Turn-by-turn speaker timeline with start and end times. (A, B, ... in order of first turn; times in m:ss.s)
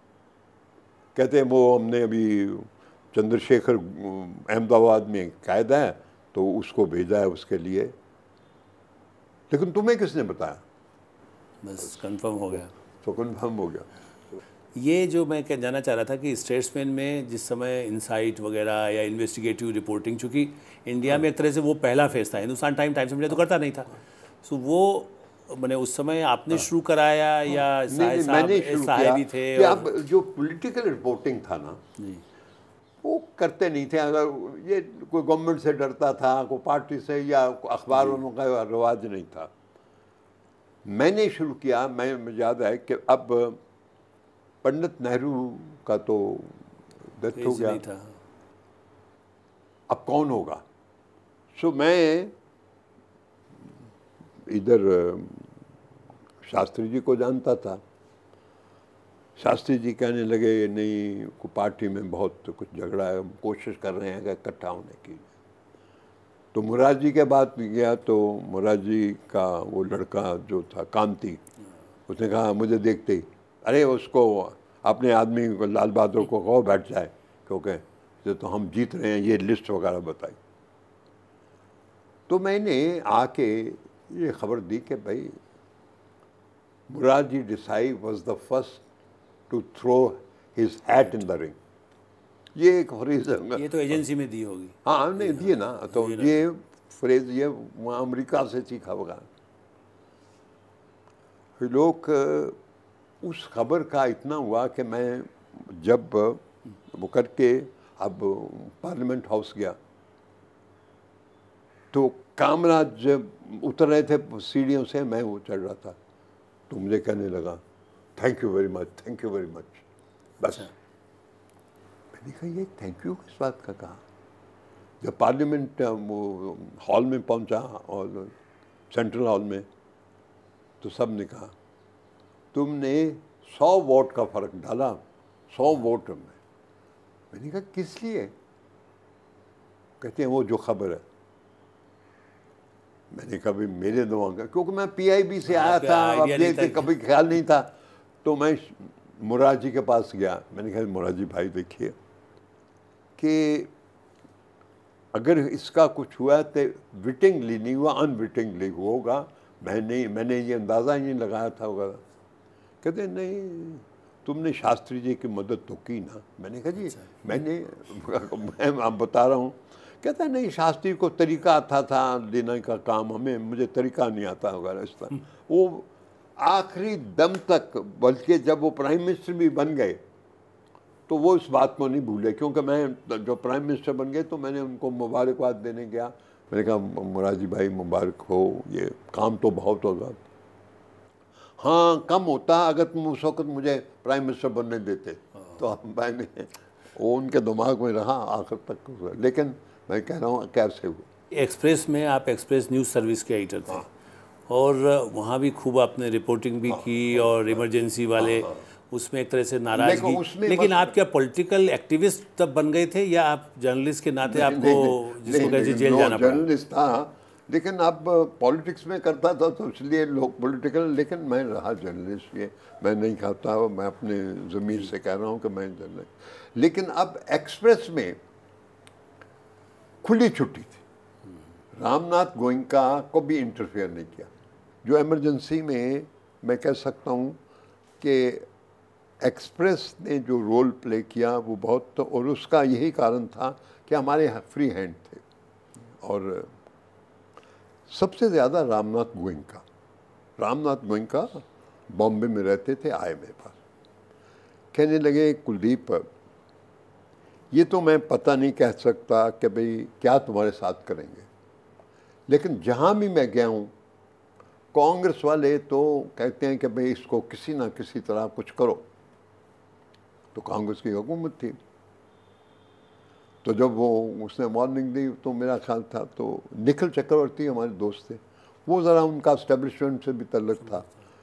0:01.1-0:08.0 A
0:09.5-0:10.6 A
0:11.6-0:12.7 B
0:13.0-0:13.9 A
0:14.8-0:29.9 B
0:27.9-0:31.8 A
0:32.0-0:32.2 B
0:33.0-0:39.5 A
0:40.8-0:43.6 A
0:44.6-0:46.6 A
0:47.1-0:47.8 A
0:47.3-0:48.1 B
0:49.9-0:50.6 A
0:51.5-0:52.3 A
0:54.4-0:55.5 A
0:56.4-0:57.8 A
0:59.4-1:05.3 A
1:06.5-1:11.4 A
1:12.1-1:20.4 A
1:22.3-1:25.4 A
1:26.9-1:28.8 A
1:29.5-1:31.6 A
1:32.5-1:34.0 A
1:33.6-1:36.4 B
1:34.8-1:39.3 A
1:41.6-1:42.6 A
1:43.2-1:49.8 A
1:51.9-1:56.0 A
1:56.7-1:57.6 A
1:58.2-1:59.8 A
2:00.4-2:00.7 A
2:00.4-2:00.7 B
2:02.1-2:04.0 A
2:05.0-2:08.3 A
2:08.9-2:09.7 A
2:10.8-2:11.5 A
2:12.5-2:16.4 A
2:17.3-2:18.3 A
2:20.0-2:21.0 A
2:23.1-2:27.7 A
2:25.5-2:26.9 B
2:28.2-2:32.0 A
2:33.2-2:33.7 A
2:35.1-2:42.0 A
2:42.8-3:00.0 A
2:46.9-2:47.2 B
3:01.1-3:10.2 A
3:11.6-3:21.1 A
3:21.3-3:23.9 B
3:24.5-3:36.4 B
3:26.7-3:27.6 A
3:28.2-3:28.5 A
3:29.7-3:30.9 A
3:34.3-3:48.2 A
3:50.0-3:50.8 A
3:51.7-3:54.3 A
3:54.8-3:57.4 A
3:58.0-3:58.5 A
3:59.2-4:05.2 A
4:06.0-4:06.5 A
4:07.9-4:09.6 A
4:10.4-4:13.6 A
4:14.7-4:16.1 A
4:17.5-4:21.3 A
4:22.3-4:23.7 A
4:24.7-4:28.9 A
4:30.3-4:31.6 A
4:33.4-4:40.9 A